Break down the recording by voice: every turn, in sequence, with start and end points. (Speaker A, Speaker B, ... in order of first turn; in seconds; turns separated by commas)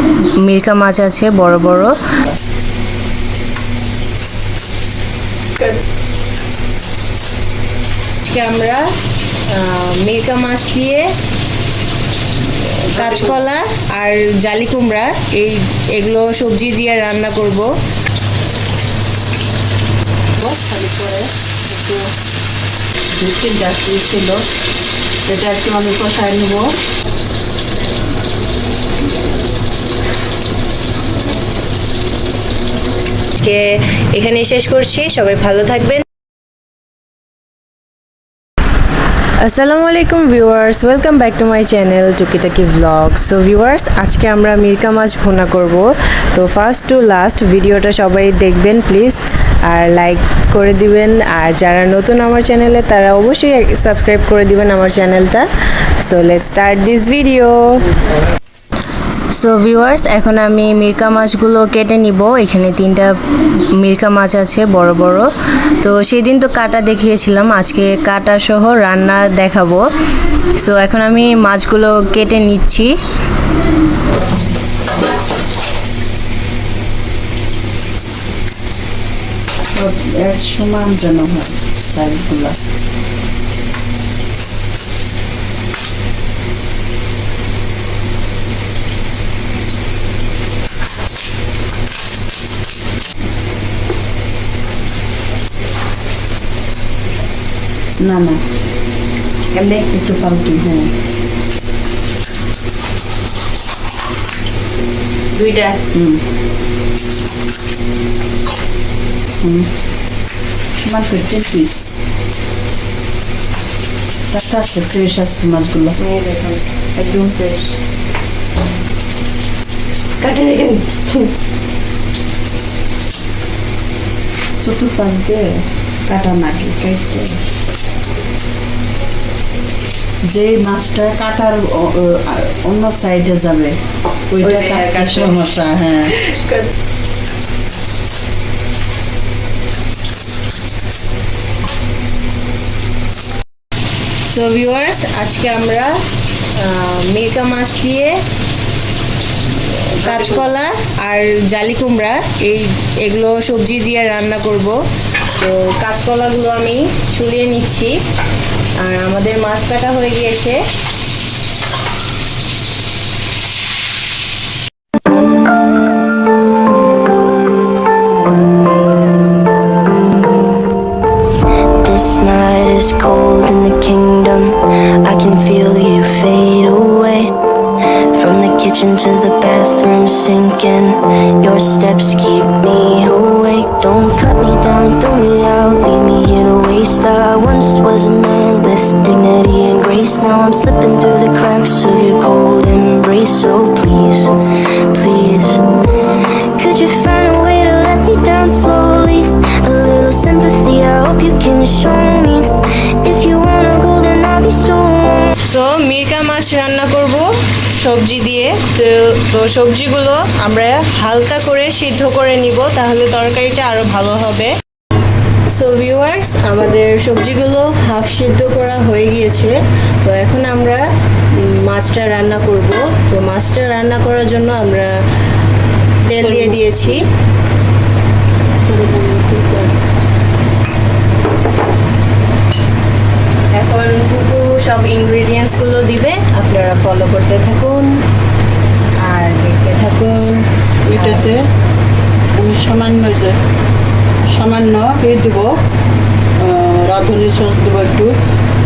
Speaker A: 0.4-2.0, Speaker A: 8.2-8.8, Speaker A: 9.5-11.1, Speaker A: 12.8-17.7, Speaker B: 12.9-13.4, Speaker B: 20.4-22.0, Speaker B: 23.2-24.4, Speaker B: 25.3-26.7, Speaker A: 33.4-36.0, Speaker A: 39.4-55.5, Speaker A: 56.0-57.8, Speaker A: 59.4-69.9, Speaker A: 70.6-72.9, Speaker B: 79.8-82.6, Speaker B: 98.0-98.4, Speaker A: 99.5-99.9, Speaker B: 99.9-100.9, Speaker A: 105.3-105.8, Speaker B: 105.9-106.2, Speaker B: 109.4-109.7, Speaker B: 110.8-112.0, Speaker B: 114.3-116.0, Speaker A: 116.0-117.8, Speaker A: 120.2-121.3, Speaker B: 124.6-127.4, Speaker B: 130.3-133.8, Speaker B: 134.3-136.1, Speaker A: 134.3-136.7, Speaker A: 144.3-146.0, Speaker A: 146.6-148.2, Speaker A: 149.8-154.8, Speaker B: 150.0-150.5, Speaker A: 155.3-158.0, Speaker A: 158.8-160.6, Speaker C: 171.8-177.3, Speaker C: 178.1-194.4, Speaker C: 194.9-205.3, Speaker A: 205.4-214.5, Speaker A: 215.5-220.8, Speaker A: 221.3-224.9, Speaker A: 226.1-227.1, Speaker B: 226.2-227.0, Speaker B: 228.7-229.7, Speaker A: 233.5-238.0, Speaker A: 239.0-241.4, Speaker B: 240.9-241.4, Speaker B: 242.3-243.4, Speaker B: 244.3-245.6, Speaker B: 246.4-248.2